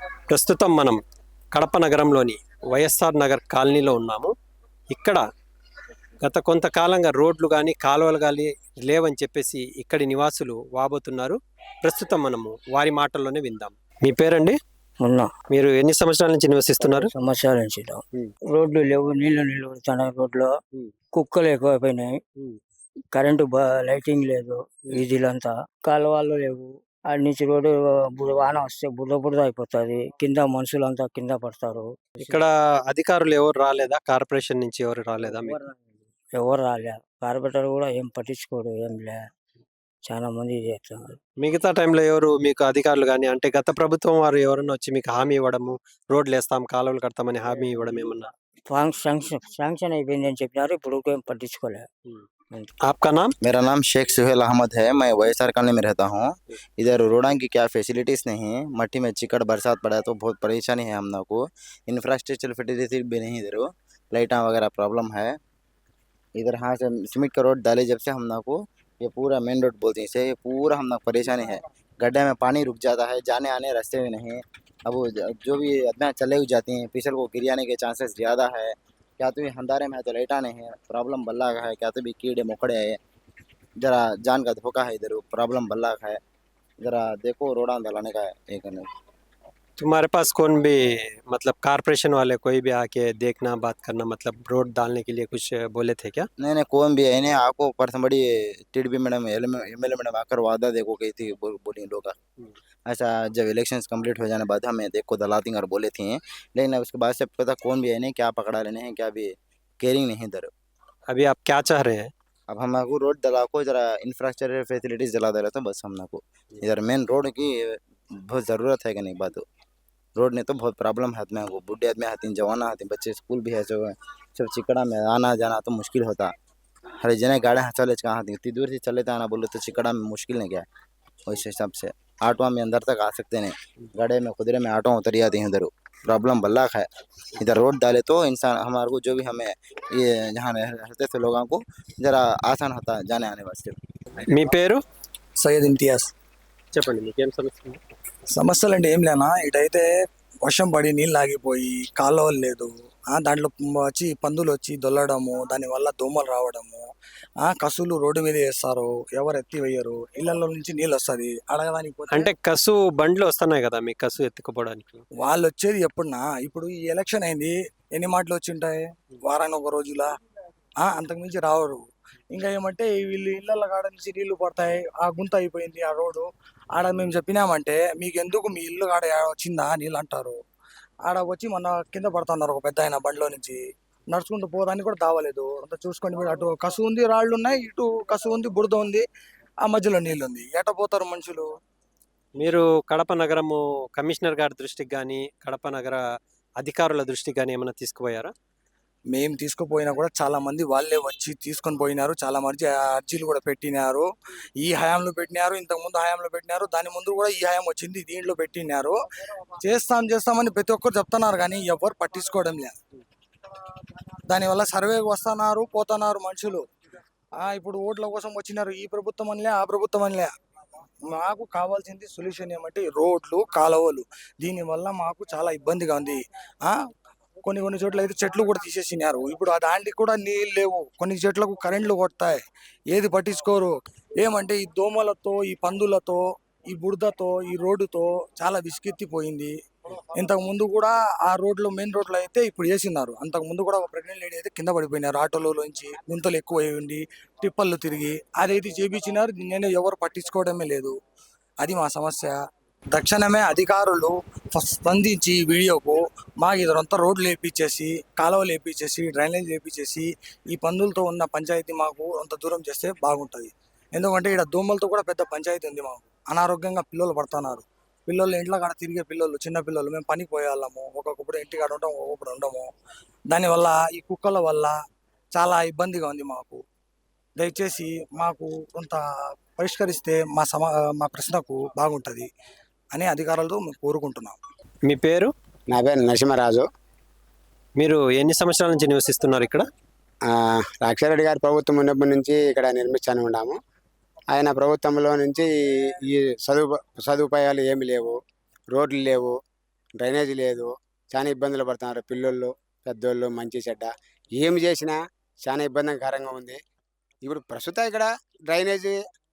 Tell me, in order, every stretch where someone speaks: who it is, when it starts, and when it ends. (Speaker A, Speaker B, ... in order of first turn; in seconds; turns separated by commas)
Speaker A: 0.3-1.0, Speaker A: 1.5-4.3, Speaker A: 4.9-5.2, Speaker A: 6.2-14.6, Speaker B: 15.0-15.3, Speaker A: 15.5-17.1, Speaker B: 16.8-20.5, Speaker B: 21.1-22.2, Speaker B: 23.1-32.4, Speaker A: 32.2-35.6, Speaker B: 35.2-39.3, Speaker B: 40.0-41.2, Speaker A: 41.4-48.3, Speaker B: 48.7-51.9, Speaker A: 52.8-53.3, Speaker C: 53.4-65.3, Speaker C: 66.4-83.0, Speaker C: 83.8-86.2, Speaker C: 86.8-88.8, Speaker A: 89.8-96.3, Speaker C: 96.4-102.2, Speaker C: 102.9-109.3, Speaker C: 109.8-110.5, Speaker A: 111.1-112.1, Speaker C: 112.5-117.8, Speaker C: 118.3-119.4, Speaker C: 120.2-126.3, Speaker C: 127.0-130.7, Speaker C: 131.3-143.8, Speaker A: 144.3-144.8, Speaker D: 145.4-146.1, Speaker A: 146.7-147.8, Speaker D: 148.3-149.9, Speaker D: 150.5-156.8, Speaker D: 157.4-162.3, Speaker A: 162.1-165.0, Speaker D: 165.2-170.1, Speaker D: 170.8-180.4, Speaker D: 181.1-183.6, Speaker D: 184.1-189.0, Speaker D: 189.6-191.4, Speaker A: 192.4-196.0, Speaker A: 196.6-198.3, Speaker D: 199.1-204.1, Speaker D: 204.6-209.0, Speaker D: 209.6-212.8, Speaker D: 214.3-216.6, Speaker D: 217.4-220.3, Speaker D: 221.1-226.8, Speaker D: 227.4-232.4, Speaker D: 232.9-236.2, Speaker D: 236.7-239.5, Speaker D: 240.2-250.9, Speaker D: 251.6-252.3, Speaker D: 252.9-272.7, Speaker D: 273.3-274.7, Speaker D: 275.3-276.6, Speaker D: 277.4-279.0, Speaker D: 279.6-282.3, Speaker D: 282.9-284.4, Speaker A: 284.9-285.3, Speaker E: 285.7-286.6, Speaker A: 287.8-289.6, Speaker E: 290.3-293.6, Speaker E: 294.3-295.5, Speaker E: 296.1-298.1, Speaker E: 298.7-299.4, Speaker E: 300.0-306.6, Speaker E: 307.2-309.0